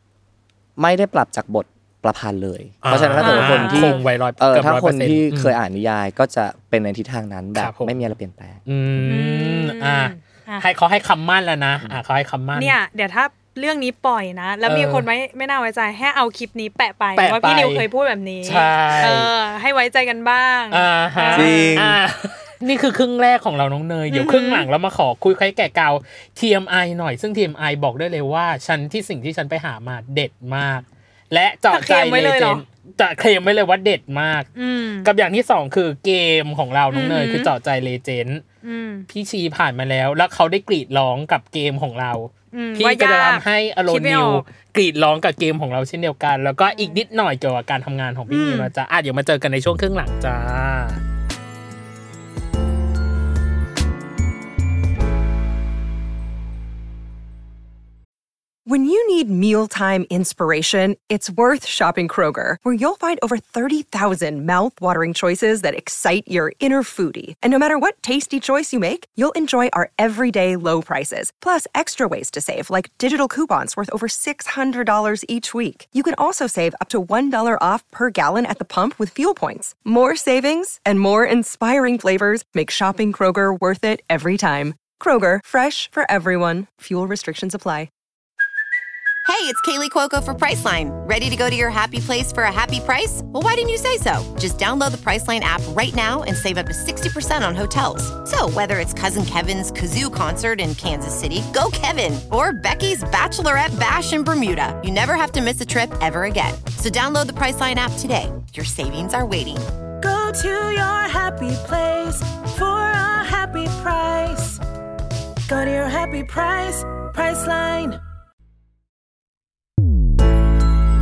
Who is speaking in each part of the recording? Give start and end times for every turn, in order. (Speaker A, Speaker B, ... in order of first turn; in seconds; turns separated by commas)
Speaker A: 0.8-8.6, Speaker B: 2.8-5.6, Speaker C: 3.2-4.0, Speaker B: 7.6-8.0, Speaker B: 8.7-12.8, Speaker C: 9.0-10.7, Speaker C: 12.6-21.8, Speaker B: 14.7-15.1, Speaker B: 17.2-17.9, Speaker B: 18.4-19.3, Speaker B: 20.7-34.5, Speaker A: 21.3-22.0, Speaker C: 24.1-24.7, Speaker C: 31.7-32.6, Speaker C: 34.5-35.1, Speaker B: 35.0-38.4, Speaker C: 36.9-37.5, Speaker C: 38.6-39.1, Speaker B: 39.1-51.0, Speaker C: 42.5-44.5, Speaker C: 46.7-47.0, Speaker C: 48.3-48.7, Speaker D: 58.7-87.9, Speaker E: 89.2-109.7, Speaker F: 110.0-114.6, Speaker F: 115.5-118.0